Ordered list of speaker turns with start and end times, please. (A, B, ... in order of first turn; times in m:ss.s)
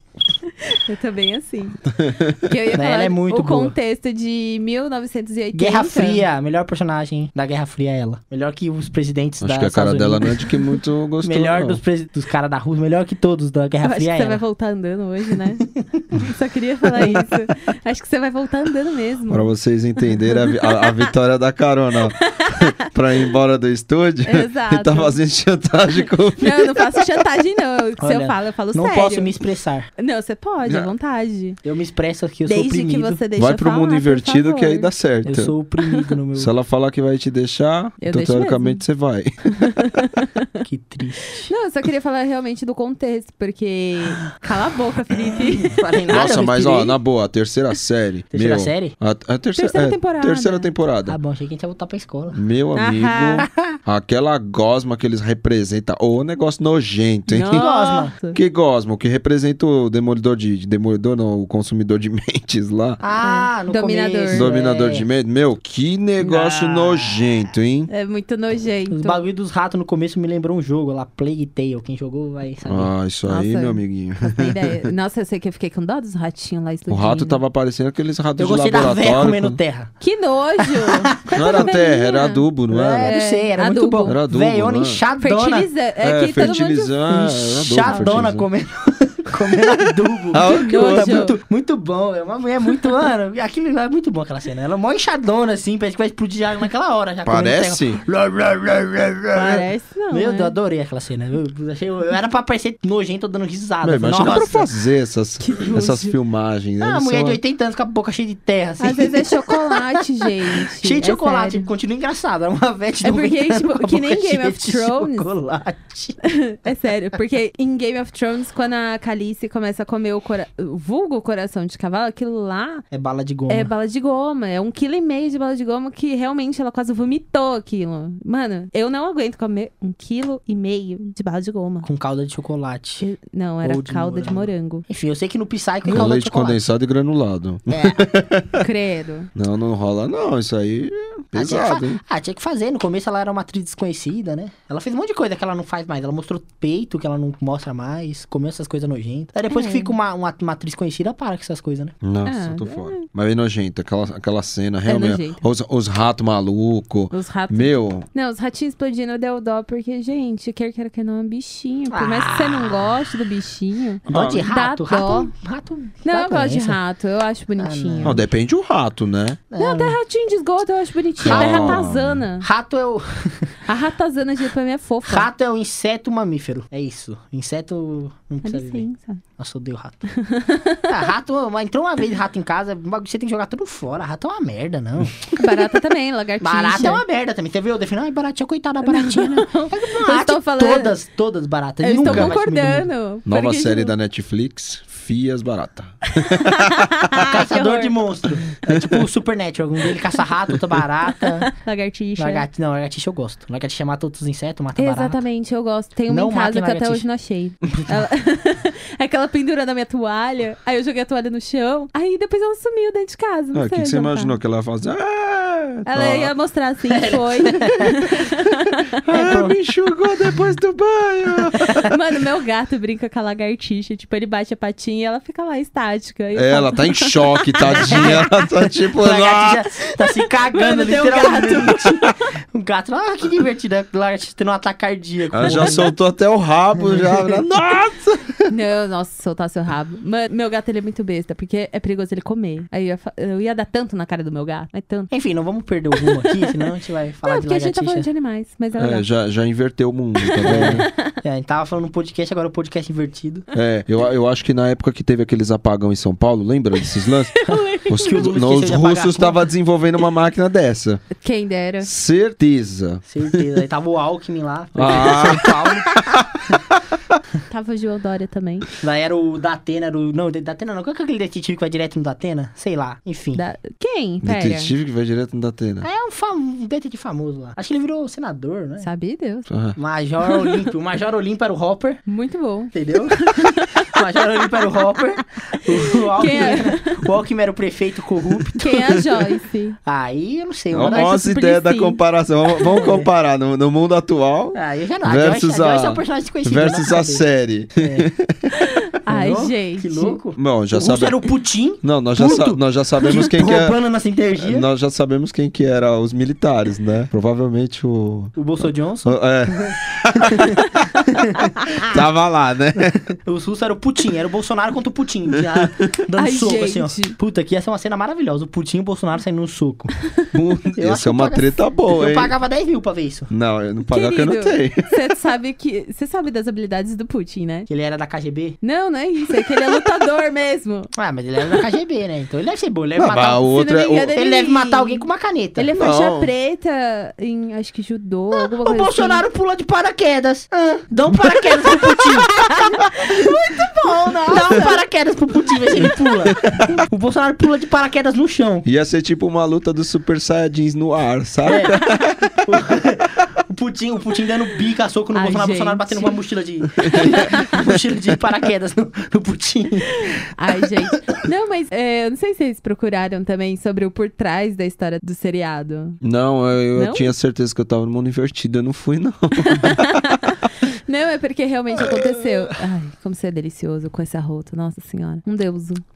0:00.4-0:06.2 A
0:01.9-0:02.5 B
0:02.7-0:03.7 C
0:05.5-0:10.6 C
0:09.4-0:11.8 B
0:11.2-0:14.4 C
0:13.8-0:21.1 A
0:15.8-0:16.1 C
0:17.0-0:17.3 C
0:19.3-0:27.1 B
0:22.2-0:22.7 A
0:24.2-0:25.2 A
0:26.4-0:29.3 A
0:28.0-0:29.9 C
0:30.0-0:31.6 A
0:30.6-0:30.9 B
0:31.6-0:33.2 C
0:32.4-0:34.9 A
0:33.4-0:35.5 B
0:35.2-0:36.5 C
0:36.4-0:39.8 B
0:38.0-0:38.8 A
0:39.6-0:40.5 A
0:40.6-0:41.5 C
0:41.5-0:45.8 A
0:45.6-0:47.0 C
0:46.1-0:51.2 B
0:48.3-0:48.9 C
0:49.6-0:50.7 A
0:51.1-0:52.4 C
0:52.3-0:57.6 B
0:52.7-0:53.5 A
0:53.4-0:53.8 C
0:57.3-0:58.4 A
0:57.5-0:58.1 C
0:58.3-1:03.0 B
1:03.0-1:05.0 C
1:03.2-1:04.5 A
1:04.3-1:07.9 B
1:06.2-1:07.2 C
1:07.9-1:09.2 A
1:08.9-1:12.9 C
1:12.6-1:14.9 B
1:13.3-1:17.4 A
1:16.9-1:19.6 B
1:18.4-1:19.9 C
1:20.0-1:22.4 A
1:20.6-1:21.7 C
1:21.3-1:23.1 B
1:22.7-1:25.7 C
1:23.0-1:24.2 A
1:24.0-1:25.0 B
1:25.2-1:26.9 A
1:26.0-1:28.5 B
1:27.1-1:44.7 C
1:27.8-1:28.1 A
1:30.3-1:31.3 B
1:30.4-1:31.4 A
1:37.2-1:38.0 B
1:39.3-1:40.5 A
1:43.8-1:47.4 B
1:45.4-1:46.1 A
1:46.8-1:56.2 C
1:48.8-1:51.7 A
1:53.0-1:55.3 A
1:56.2-2:02.8 A
2:02.9-2:03.7 C
2:03.5-2:11.9 A
2:11.8-2:13.0 C
2:13.0-2:14.8 A
2:13.6-2:16.6 C
2:15.9-2:18.6 B
2:17.7-2:18.1 C
2:18.6-2:19.3 A
2:19.3-2:22.0 B
2:21.3-2:31.9 C
2:29.5-2:29.9 A
2:32.0-2:38.0 B
2:32.2-2:33.0 A
2:34.8-2:35.4 A
2:37.1-2:45.3 A
2:41.9-2:42.9 C
2:44.1-2:44.5 B
2:44.1-2:46.8 C
2:46.0-2:48.2 A
2:47.6-2:48.2 C
2:48.0-2:49.4 B
2:49.5-2:50.0 C
2:49.6-2:52.4 A
2:51.2-2:52.2 B
2:51.2-2:51.9 C
2:52.4-2:53.5 C
2:53.7-2:55.3 A
2:55.0-2:58.8 C
2:58.4-2:59.2 A
2:59.4-3:00.1 C
3:00.1-3:00.9 A
3:00.9-3:05.7 C
3:05.4-3:07.0 A
3:06.4-3:12.9 C
3:08.8-3:10.9 A
3:11.8-3:13.9 A
3:12.0-3:12.3 B
3:13.2-3:17.2 B
3:16.1-3:18.1 A
3:17.2-3:21.5 C
3:18.7-3:19.0 B
3:21.1-3:22.4 A
3:22.2-3:25.2 C
3:24.8-3:34.4 A
3:26.1-3:27.0 C
3:33.5-3:36.3 B
3:35.9-3:38.9 A
3:36.9-3:38.0 C
3:39.0-3:41.9 B
3:39.1-3:39.6 C
3:41.6-3:41.9 C
3:41.8-3:48.5 A
3:46.3-3:49.6 B
3:47.6-3:48.3 C
3:48.9-3:55.9 C
3:50.5-3:51.8 A
3:55.3-3:58.5 B
3:56.9-3:57.2 C
3:58.5-4:05.1 A
4:05.1-4:08.1 C
4:06.0-4:06.7 A
4:07.2-4:09.1 A
4:08.8-4:10.8 B
4:10.2-4:10.9 A
4:10.4-4:13.5 C
4:13.5-4:21.1 B
4:17.4-4:18.2 A
4:17.5-4:19.4 C
4:21.2-4:21.9 A
4:21.8-4:23.4 B
4:23.1-4:26.0 C
4:24.7-4:26.4 B
4:27.5-4:28.7 A
4:28.8-4:33.4 C
4:33.3-4:34.7 A
4:34.2-4:35.9 B
4:35.8-4:38.9 C
4:38.8-4:39.5 A
4:39.5-4:39.8 B
4:39.8-4:42.0 C
4:40.3-4:40.6 A
4:42.1-4:44.0 A
4:42.7-4:49.0 C
4:45.7-4:47.0 A
4:48.6-4:49.8 A
4:49.8-4:51.1 C
4:50.7-4:58.6 B
4:50.8-4:52.0 A
4:52.6-4:53.1 C
4:54.5-4:58.1 C
4:58.6-5:00.2 A
4:59.0-5:04.6 C
5:00.4-5:01.2 B
5:01.8-5:03.8 B
5:04.4-5:08.4 B
5:08.3-5:11.9 C
5:09.0-5:10.6 B
5:11.8-5:13.1 B
5:13.2-5:19.9 C
5:15.5-5:15.9 B
5:16.2-5:17.2 A
5:20.3-5:22.3 B
5:20.7-5:23.3 C
5:23.3-5:24.9 B
5:23.9-5:27.7 A
5:27.7-5:28.6 C
5:28.6-5:30.9 A
5:30.9-5:33.4 C
5:33.0-5:34.1 B
5:33.4-5:39.2 A
5:34.1-5:35.7 C
5:35.8-5:36.3 B
5:38.4-5:48.6 C
5:41.9-5:44.8 A
5:48.6-5:52.4 B
5:51.4-5:51.8 C
5:51.5-5:52.0 A
5:52.4-6:00.1 C
5:55.1-5:56.2 A
5:56.8-5:57.7 B
5:56.8-5:57.5 A
6:00.0-6:06.0 A
6:06.0-6:10.2 B
6:06.7-6:07.1 A
6:09.4-6:15.8 A
6:11.8-6:12.2 B